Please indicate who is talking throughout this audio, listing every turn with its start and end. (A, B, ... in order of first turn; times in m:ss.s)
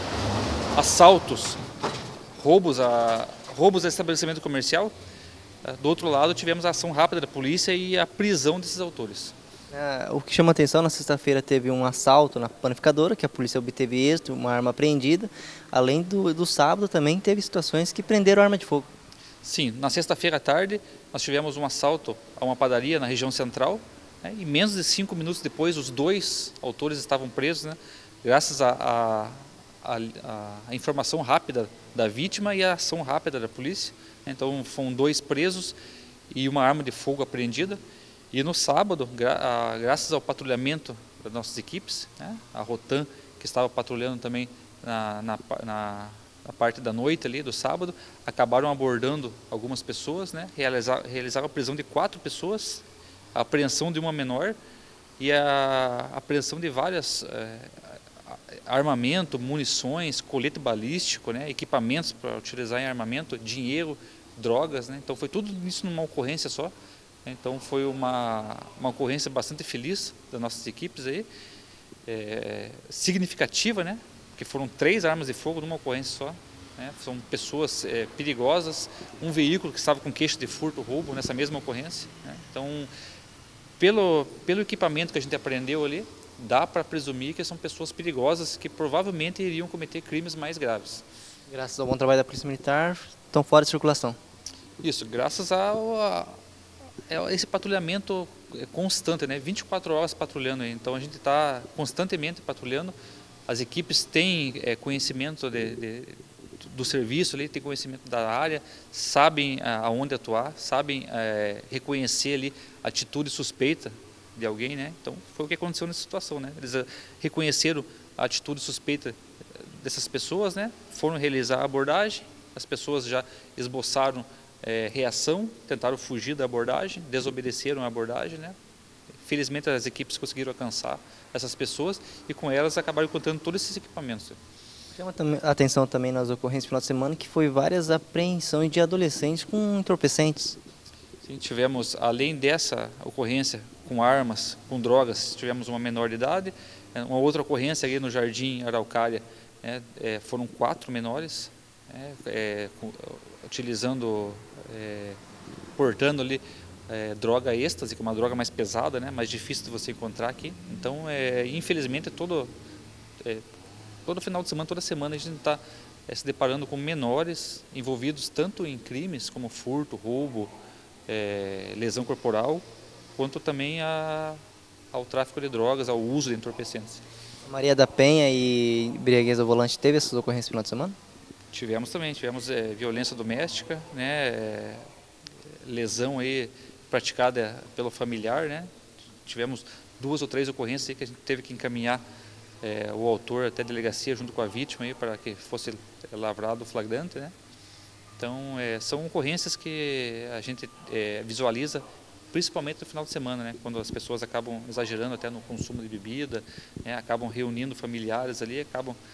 0:00.8-0:01.6 A
0:02.3-0:04.9 A
0:05.6-0:09.3 A
0:09.7-0:18.9 B
0:19.4-0:35.7 A
0:36.3-0:37.8 A
0:38.3-0:52.8 A
0:53.3-0:54.6 A
0:55.2-1:06.7 A
1:07.2-1:11.3 A
1:12.0-1:22.9 A
1:23.8-1:31.0 A
1:31.5-1:34.2 B
1:34.8-1:36.4 A
1:37.1-1:42.9 A
1:43.5-2:08.6 A
2:09.2-2:14.4 A
2:14.9-2:20.6 B
2:21.2-2:35.2 A
2:35.8-2:42.5 A
2:43.2-2:43.4 A
2:44.0-2:50.5 A
2:51.1-2:52.6 A
2:53.1-2:54.4 A
2:54.9-2:57.0 A
2:57.5-3:01.0 B
3:01.5-3:04.8 A
3:05.5-3:08.7 A
3:09.2-3:12.0 A
3:12.6-3:17.3 A
3:18.2-3:29.0 A